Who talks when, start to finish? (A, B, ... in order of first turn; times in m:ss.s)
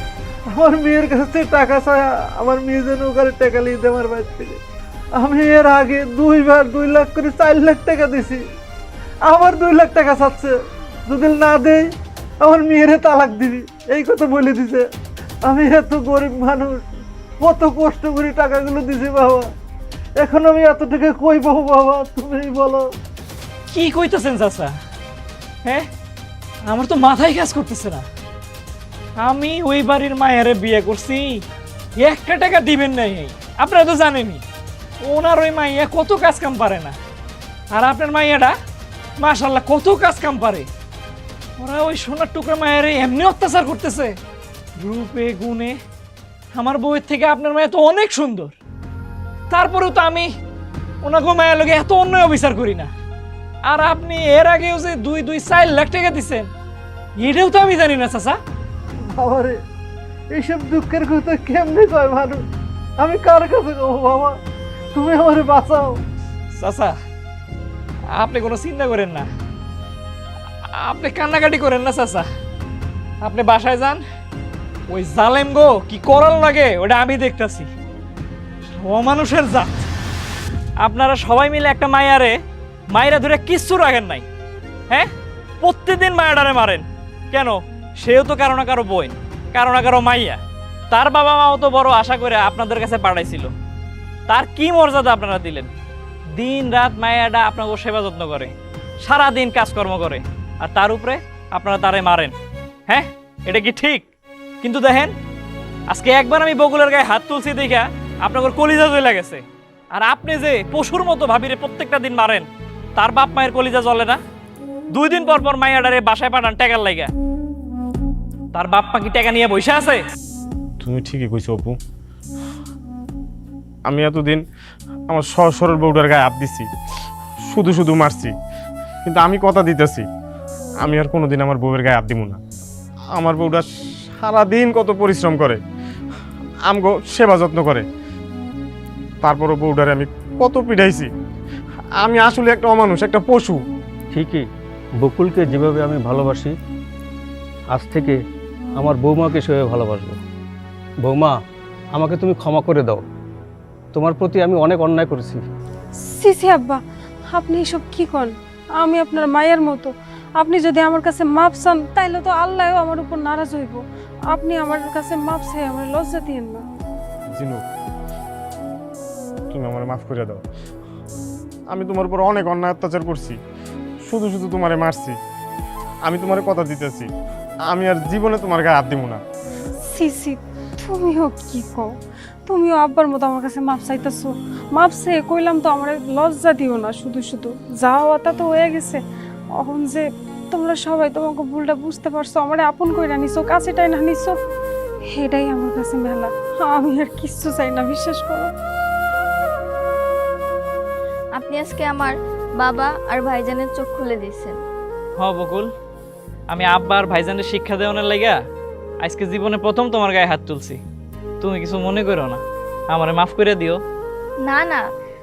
0:00.6-0:04.6 A
0:05.2-0:08.4 A
0:09.2-0:10.5 A
0:11.1-0:11.9 A
0:12.4-0:14.8 A
0:15.4-0:16.8 A
0:17.4-0:19.5 A
0:20.2-0:22.8 A
0:23.7-0:24.7 B
0:26.7-0:28.0 B
0:29.2-0:31.4 B
0:32.0-0:34.4 B
0:35.0-0:37.0 B
0:37.7-0:38.6 B
0:39.2-0:40.7 B
0:41.6-0:44.2 B
0:44.8-0:45.8 B
0:46.5-0:48.6 B
0:49.5-0:50.3 B
0:51.0-0:52.9 B
0:53.7-0:56.5 B
0:57.2-0:58.4 B
0:59.1-0:59.6 A
1:00.3-1:02.4 A
1:03.0-1:04.4 A
1:04.9-1:06.0 A
1:06.5-1:07.0 B
1:08.1-1:09.3 B
1:10.7-1:12.3 B
1:13.2-1:14.0 B
1:14.9-1:17.7 B
1:18.7-1:19.9 B
1:20.8-1:22.4 B
1:22.9-1:24.2 B
1:25.6-1:30.4 B
1:30.9-1:33.5 B
1:34.3-1:35.7 B
1:36.4-1:42.4 B
1:42.9-1:44.1 B
1:44.6-1:45.1 B
1:45.9-1:54.2 B
1:54.9-1:57.1 B
1:58.5-2:00.0 B
2:00.8-2:01.8 C
2:03.9-2:04.4 C
2:05.1-2:06.7 C
2:07.5-2:08.3 C
2:09.0-2:10.1 C
2:10.8-2:12.4 C
2:13.2-2:13.7 C
2:14.2-2:15.6 C
2:16.7-2:17.8 C
2:19.2-2:21.1 C
2:22.0-2:23.6 C
2:24.1-2:24.5 D
2:25.0-2:26.6 D
2:27.7-2:28.2 D
2:28.8-2:30.2 D
2:31.0-2:31.4 D
2:31.9-2:33.0 D
2:33.9-2:35.5 D
2:36.0-2:36.8 E
2:37.3-2:46.6 E
2:47.3-2:47.6 C
2:49.5-2:50.4 C
2:51.7-2:53.4 C
2:54.1-2:55.2 C
2:56.0-2:57.1 C
2:57.7-2:59.2 C
2:59.9-3:01.9 E
3:02.5-3:09.0 E
3:09.6-3:14.4 E
3:15.2-3:18.5 E
3:21.4-3:24.6 F
3:25.2-3:25.7 B
3:26.5-3:28.4 B
3:29.0-3:30.8 B
3:31.4-3:32.4 B
3:32.9-3:33.8 B
3:34.5-3:34.8 F